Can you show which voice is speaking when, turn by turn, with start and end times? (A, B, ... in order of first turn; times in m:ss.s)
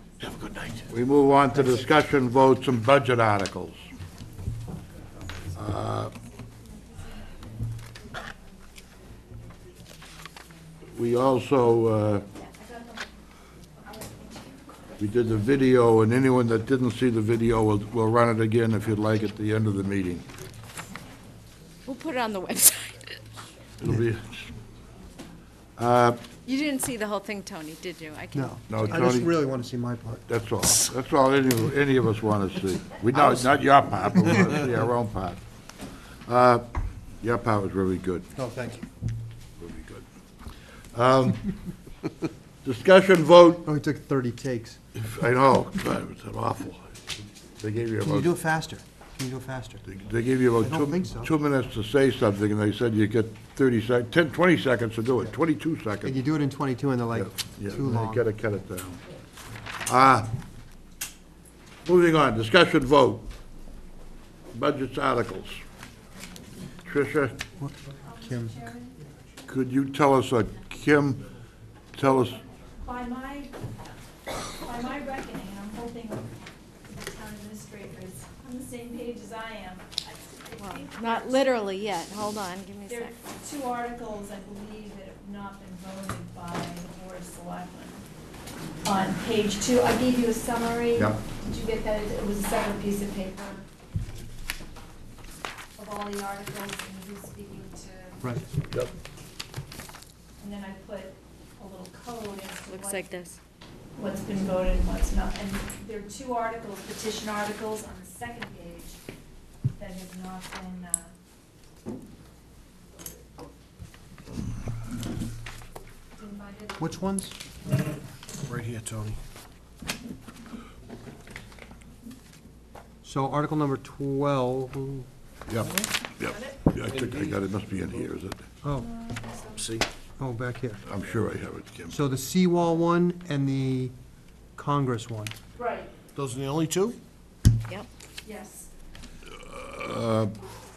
0:00.9-0:03.8 A
0:05.5-0:06.1 A
0:10.9-0:12.2 A
0:12.4-0:13.1 B
0:13.8-0:14.6 B
0:15.0-0:20.2 A
0:21.8-0:23.2 C
0:23.8-0:24.5 A
0:25.8-0:26.2 A
0:26.4-0:29.0 C
0:28.4-0:30.2 D
0:28.7-0:29.4 A
0:30.3-0:35.4 A
0:36.2-0:38.2 A
0:38.3-0:38.8 D
0:39.6-0:40.0 A
0:40.9-0:41.5 A
0:42.6-0:43.7 A
0:43.6-0:44.8 D
0:45.0-0:46.8 A
0:47.6-0:48.4 A
0:48.0-0:49.8 D
0:49.8-0:56.2 A
0:50.6-0:51.2 D
0:56.0-0:58.2 D
0:57.1-0:59.0 A
0:59.8-1:00.3 A
1:01.8-1:03.3 A
1:04.5-1:05.6 A
1:06.8-1:07.4 A
1:08.0-1:08.9 B
1:08.2-1:08.5 D
1:09.5-1:11.3 A
1:11.9-1:12.4 A
1:12.2-1:13.9 B
1:14.5-1:16.3 B
1:16.8-1:21.7 B
1:20.6-1:23.2 C
1:22.9-1:28.0 B
1:28.8-1:33.6 B
1:35.8-1:38.3 B
1:40.4-1:43.2 B
1:42.7-1:43.4 C
1:44.0-1:49.0 B
1:49.7-1:51.1 B
1:56.2-1:57.0 B
1:56.8-1:57.4 D
1:58.4-1:59.2 E
2:03.0-2:05.1 D
2:05.5-2:08.4 A
2:06.3-2:06.5 B
2:06.8-2:08.1 E
2:08.6-2:08.9 D
2:08.8-2:09.7 B
2:09.5-2:09.9 E
2:10.2-2:10.8 D
2:10.8-2:12.0 A
2:11.9-2:13.9 D
2:14.6-2:15.3 D
2:15.5-2:15.9 B
2:16.1-2:17.0 E
2:18.2-2:18.7 B
2:19.4-2:20.3 A